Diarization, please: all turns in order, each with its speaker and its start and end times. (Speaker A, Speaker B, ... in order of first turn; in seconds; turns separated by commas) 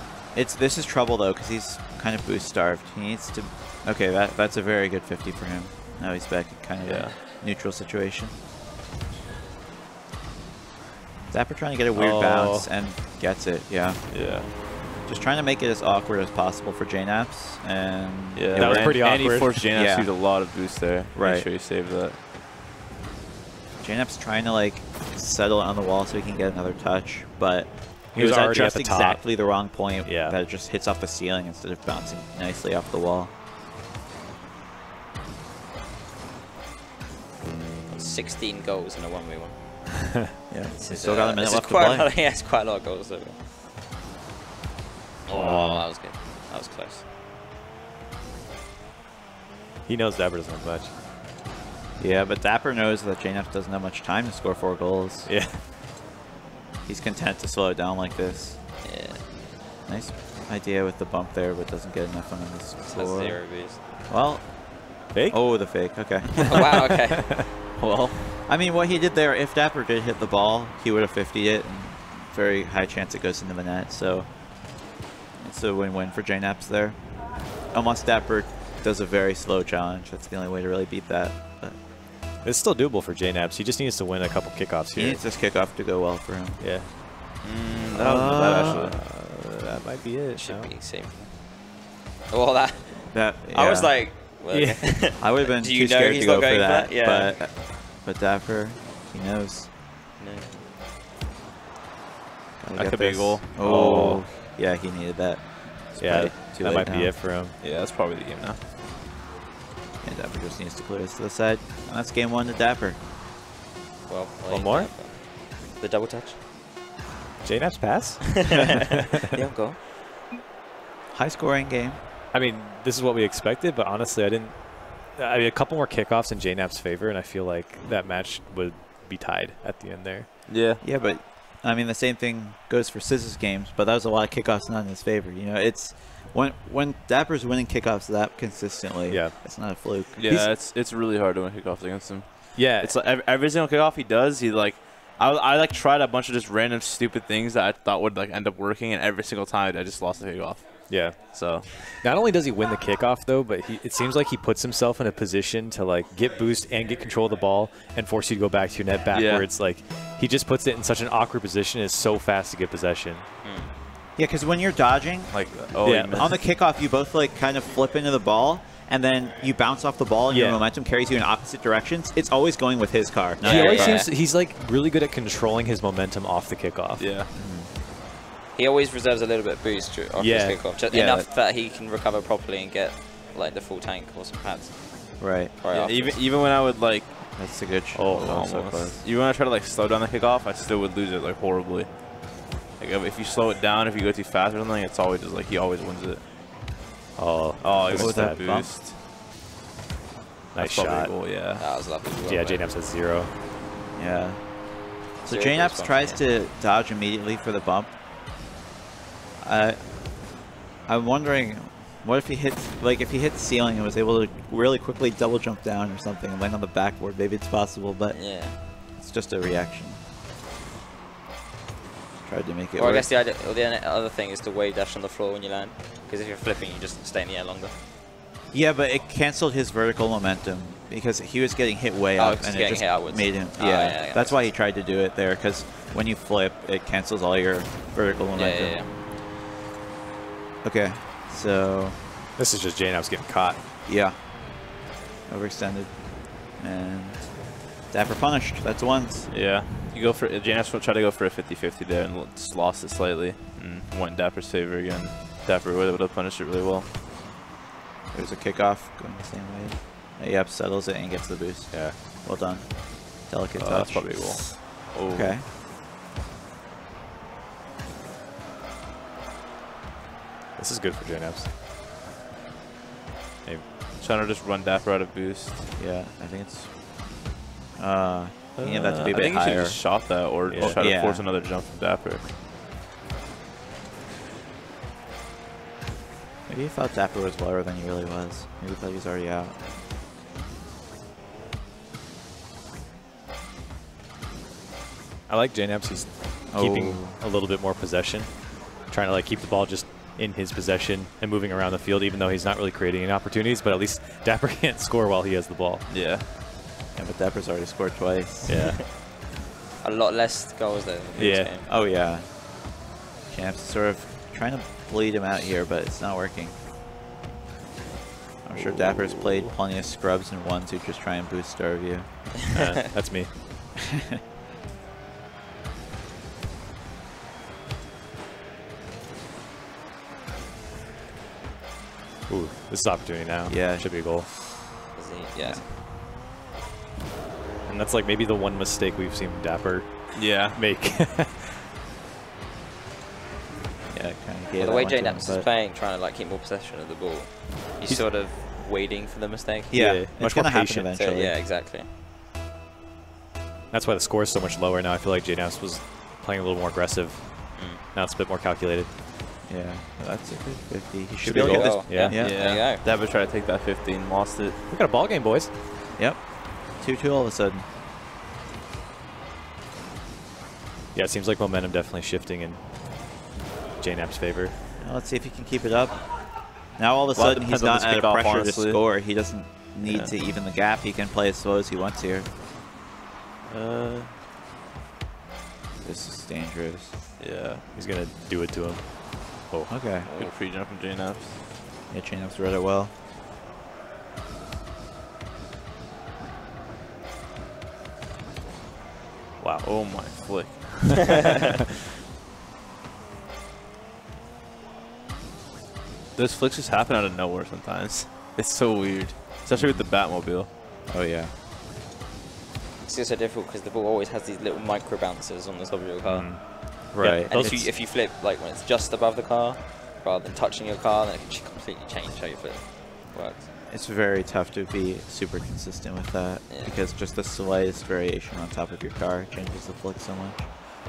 Speaker A: 0.3-8.3, Speaker B: 6.8-7.1, Speaker A: 11.3-19.1, Speaker C: 11.9-12.7, Speaker B: 14.1-14.5, Speaker B: 18.3-22.2, Speaker C: 18.5-19.6, Speaker A: 19.7-20.3, Speaker A: 21.1-21.5, Speaker A: 23.8-33.3, Speaker C: 28.1-29.3, Speaker C: 30.0-30.4, Speaker D: 37.9-40.1, Speaker A: 40.5-42.1, Speaker D: 40.8-43.4, Speaker D: 45.2-47.0, Speaker C: 45.3-45.8, Speaker C: 49.9-50.9, Speaker A: 52.0-55.3, Speaker C: 55.3-55.6, Speaker A: 56.9-58.6, Speaker D: 58.8-59.2, Speaker A: 59.9-66.6, Speaker D: 62.9-63.8, Speaker C: 65.1-66.0, Speaker D: 66.4-67.8, Speaker A: 67.8-74.8, Speaker A: 75.4-81.8, Speaker C: 82.4-85.2, Speaker A: 84.9-86.8, Speaker C: 86.6-86.9, Speaker B: 87.4-88.9, Speaker A: 87.9-88.9, Speaker C: 88.0-90.7, Speaker D: 90.3-97.4, Speaker A: 93.1-94.0, Speaker C: 94.5-95.1, Speaker A: 95.2-99.7, Speaker D: 100.2-100.5, Speaker A: 102.6-107.2, Speaker B: 102.7-104.2, Speaker C: 103.6-104.2, Speaker C: 106.0-107.5, Speaker B: 107.6-108.6, Speaker A: 110.0-113.0, Speaker D: 114.1-116.4, Speaker C: 114.5-114.9, Speaker C: 117.4-118.5, Speaker D: 119.3-119.8, Speaker A: 121.1-122.0, Speaker C: 122.3-130.3, Speaker B: 130.5-130.8, Speaker A: 130.8-140.3, Speaker C: 139.1-140.5, Speaker B: 140.2-151.8, Speaker C: 142.5-142.9, Speaker C: 150.9-163.2, Speaker B: 159.1-159.5, Speaker D: 163.4-163.7, Speaker A: 164.2-165.6, Speaker B: 165.3-166.3, Speaker C: 165.8-166.3, Speaker A: 166.1-174.1, Speaker C: 170.3-170.6, Speaker D: 173.4-174.1, Speaker C: 173.4-177.1, Speaker B: 177.0-177.3, Speaker A: 177.3-177.7, Speaker D: 178.6-186.2, Speaker C: 180.2-180.6, Speaker A: 180.9-181.3, Speaker A: 185.2-185.5, Speaker B: 185.7-187.5, Speaker A: 187.3-189.0, Speaker C: 187.9-188.3, Speaker B: 188.1-196.2, Speaker C: 197.2-198.4, Speaker B: 197.6-198.9, Speaker A: 197.9-198.7, Speaker C: 200.5-201.1, Speaker B: 200.5-201.6, Speaker D: 201.6-202.6, Speaker C: 202.2-203.3, Speaker A: 203.9-207.9, Speaker D: 205.2-206.2, Speaker A: 209.4-210.3, Speaker A: 210.9-220.0, Speaker D: 218.1-218.6, Speaker A: 222.2-223.1, Speaker D: 222.8-227.7, Speaker A: 228.5-238.8, Speaker D: 232.2-234.5, Speaker D: 238.3-238.9, Speaker A: 240.6-242.0, Speaker C: 242.4-243.6, Speaker A: 243.8-244.7, Speaker A: 245.3-249.3, Speaker B: 249.3-256.9, Speaker A: 258.1-265.4, Speaker B: 263.6-265.4, Speaker C: 270.6-271.5, Speaker B: 274.0-275.7, Speaker A: 275.8-277.1, Speaker A: 277.8-281.3, Speaker C: 278.6-279.0, Speaker B: 278.6-282.3, Speaker C: 280.5-280.8, Speaker A: 286.5-289.6, Speaker C: 295.3-305.9, Speaker A: 296.5-297.2, Speaker B: 305.9-306.2, Speaker A: 306.9-308.7, Speaker C: 308.4-308.8, Speaker D: 309.8-311.7, Speaker C: 311.1-311.5, Speaker A: 311.6-316.6, Speaker A: 318.4-322.5, Speaker B: 318.9-319.5, Speaker C: 322.5-323.3, Speaker C: 332.3-334.3, Speaker A: 333.5-334.1, Speaker D: 334.9-335.8, Speaker C: 337.6-341.5, Speaker B: 340.1-340.6, Speaker A: 343.9-345.5, Speaker D: 344.6-349.8, Speaker A: 349.7-351.4, Speaker C: 349.7-350.9, Speaker D: 350.9-351.9, Speaker C: 353.7-358.9, Speaker D: 357.5-357.8, Speaker A: 359.4-362.5, Speaker C: 361.2-362.2, Speaker D: 361.3-362.8, Speaker B: 362.1-364.6, Speaker C: 364.7-365.5, Speaker A: 366.0-367.7, Speaker C: 370.9-372.6, Speaker C: 373.8-374.5, Speaker A: 374.8-382.3, Speaker B: 377.1-378.8, Speaker B: 383.5-384.1, Speaker A: 385.8-386.9, Speaker B: 387.2-387.6, Speaker C: 387.7-389.7, Speaker A: 389.7-390.1, Speaker D: 390.1-390.3, Speaker B: 390.1-391.4, Speaker A: 391.9-392.9, Speaker C: 399.4-399.7, Speaker B: 399.6-401.4, Speaker B: 406.1-410.5, Speaker A: 409.5-409.9, Speaker A: 410.9-411.3, Speaker D: 412.8-423.4, Speaker C: 416.1-417.7, Speaker A: 416.9-417.3, Speaker A: 423.7-430.6, Speaker D: 426.5-426.8